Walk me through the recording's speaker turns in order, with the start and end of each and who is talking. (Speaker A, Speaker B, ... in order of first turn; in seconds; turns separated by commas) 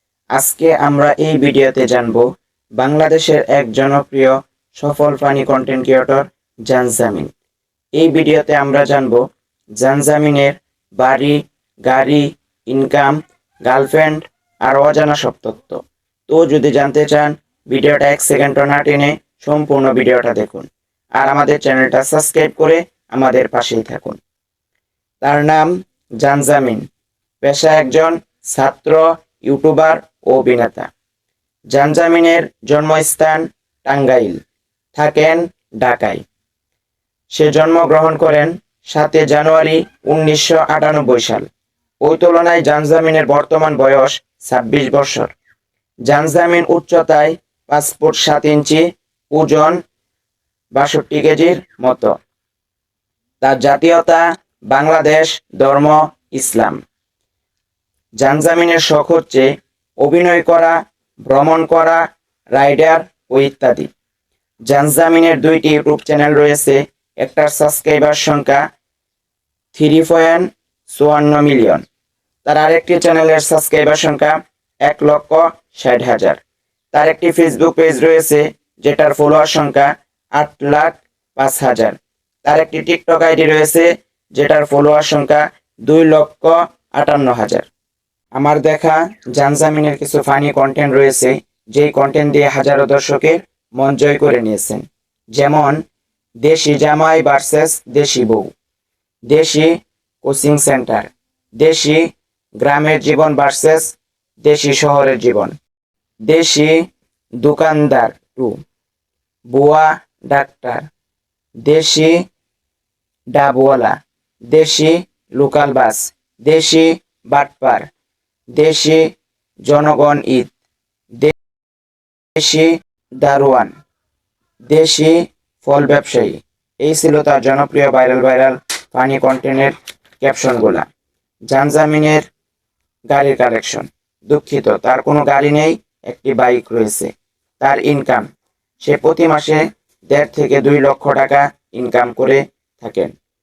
Speaker A: 0.3-2.2, Speaker A: 2.8-7.3, Speaker A: 8.0-9.2, Speaker A: 9.8-24.2, Speaker A: 25.2-25.7, Speaker A: 26.2-26.9, Speaker A: 27.4-30.9, Speaker A: 31.7-34.4, Speaker A: 34.9-36.2, Speaker A: 37.3-41.5, Speaker A: 42.0-45.3, Speaker A: 46.1-49.8, Speaker A: 50.8-52.1, Speaker A: 53.4-56.8, Speaker A: 58.2-59.5, Speaker A: 60.0-62.0, Speaker A: 62.5-63.9, Speaker A: 64.7-68.6, Speaker A: 69.7-71.8, Speaker A: 72.5-76.4, Speaker A: 76.9-87.7, Speaker A: 88.4-95.8, Speaker A: 96.4-98.5, Speaker A: 99.3-102.1, Speaker A: 102.6-105.5, Speaker A: 106.3-106.8, Speaker A: 107.4-108.6, Speaker A: 109.5-110.9, Speaker A: 111.7-112.2, Speaker A: 113.3-114.0, Speaker A: 114.5-117.9, Speaker A: 118.5-119.1, Speaker A: 119.7-120.5, Speaker A: 122.4-123.7, Speaker A: 124.7-130.8, Speaker A: 131.5-132.3, Speaker A: 133.1-138.3, Speaker A: 138.8-143.1